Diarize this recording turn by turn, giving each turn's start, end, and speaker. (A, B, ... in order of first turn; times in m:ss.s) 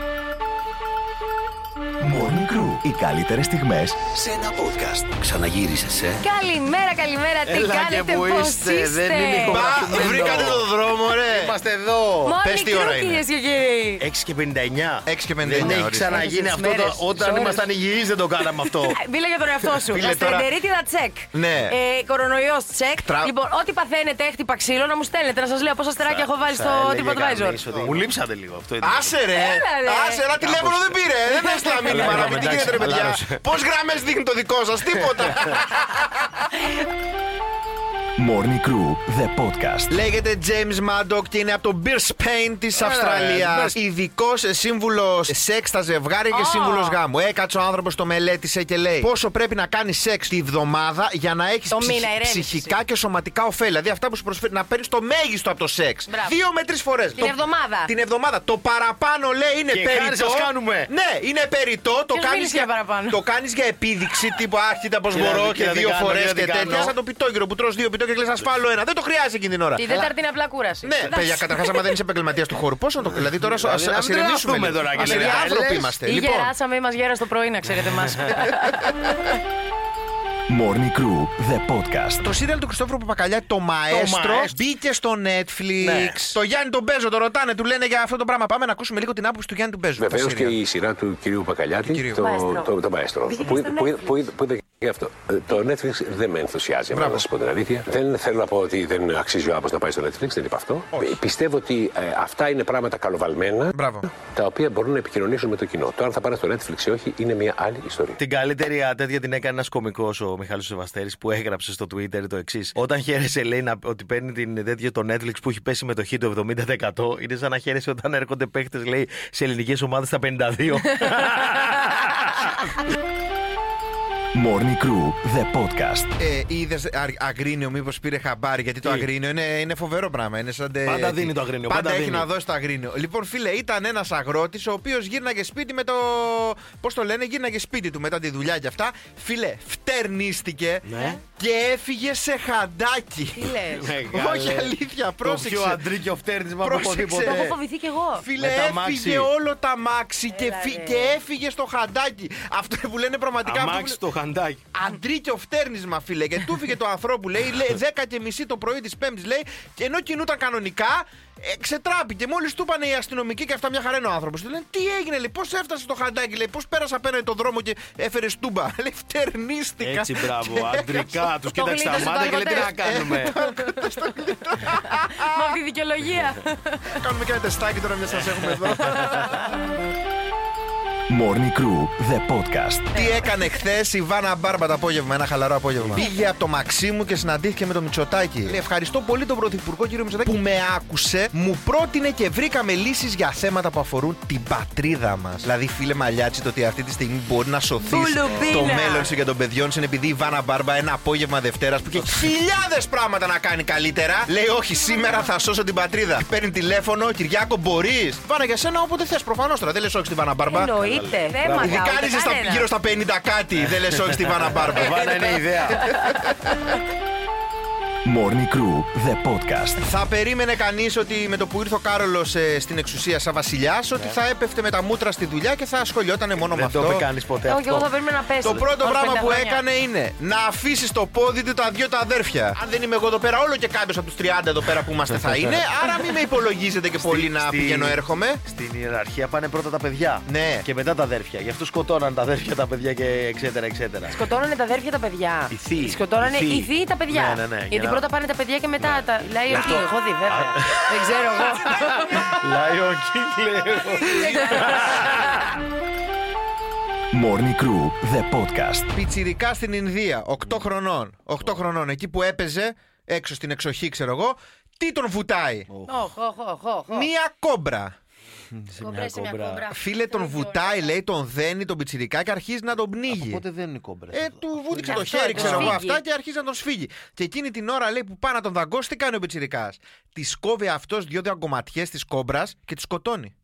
0:02.0-0:06.1 A
0:06.2-0:09.8 B
0:07.4-0:12.4 C
0:09.4-0:11.5 D
0:12.2-0:14.0 B
0:12.4-0:13.2 D
0:14.0-0:19.0 C
0:15.0-0:16.2 D
0:15.6-0:17.7 B
0:18.6-0:27.6 B
0:19.9-0:20.5 D
0:21.3-0:21.7 D
0:23.0-0:23.3 D
0:26.0-0:29.2 C
0:28.8-0:36.4 D
0:29.3-0:30.3 B
0:30.4-0:31.0 C
0:31.2-0:33.2 B
0:31.9-0:33.3 C
0:38.2-0:39.9 A
0:39.9-1:09.8 D
0:42.7-0:43.8 C
0:46.3-0:47.0 B
0:51.7-0:52.8 B
0:56.1-0:56.4 B
0:57.2-0:57.9 B
0:59.7-1:00.9 C
1:02.1-1:03.2 B
1:05.1-1:06.9 C
1:06.6-1:06.9 B
1:09.8-1:11.9 B
1:09.9-1:10.1 C
1:10.8-1:16.5 D
1:13.0-1:16.0 C
1:14.9-1:19.0 B
1:20.5-1:22.2 A
1:22.2-1:30.6 D
1:23.9-1:24.6 C
1:25.8-1:26.4 C
1:30.0-1:48.2 E
1:31.8-1:32.2 D
1:32.2-1:32.7 B
1:33.3-1:34.2 B
1:36.9-1:37.2 D
1:40.9-1:41.2 D
1:43.7-1:44.1 D
1:48.2-2:02.5 C
2:04.3-2:06.1 A
2:06.2-2:25.8 D
2:08.8-2:09.1 C
2:10.8-2:12.3 C
2:20.8-2:21.2 C
2:23.4-2:24.0 B
2:23.7-2:27.6 C
2:26.6-2:27.5 D
2:27.2-2:28.3 B
2:28.2-2:34.0 D
2:28.4-2:29.3 C
2:30.3-2:31.2 B
2:33.4-2:34.6 C
2:34.7-2:51.2 D
2:49.8-2:53.3 C
2:51.5-2:54.0 B
2:52.6-2:55.5 D
2:54.6-2:56.8 B
2:57.0-2:59.4 D
2:58.4-2:59.2 C
2:58.8-2:59.1 B
3:01.1-3:02.9 A
3:02.9-3:03.3 B
3:02.9-3:30.7 D
3:17.8-3:19.1 B
3:21.9-3:22.3 C
3:30.5-3:32.7 B
3:30.7-3:31.8 C
3:31.6-3:36.3 D
3:33.6-3:35.9 C
3:34.8-3:35.1 B
3:38.0-3:39.8 A
3:39.8-3:47.0 D
3:46.3-3:47.9 C
3:47.4-3:49.6 B
3:48.4-3:58.4 D
3:56.9-4:04.2 C
4:00.2-4:00.6 D
4:04.1-4:12.3 B
4:05.5-4:08.1 C
4:08.8-4:15.4 C
4:14.1-4:14.6 B
4:14.2-4:14.8 D
4:17.1-4:18.9 A
4:18.9-4:25.7 D
4:25.7-4:26.0 C
4:25.9-4:27.1 B
4:26.9-4:27.9 D
4:28.5-4:29.6 C
4:28.8-4:30.9 B
4:29.7-4:33.4 D
4:33.1-4:35.8 C
4:34.1-4:43.3 D
4:34.8-4:36.0 B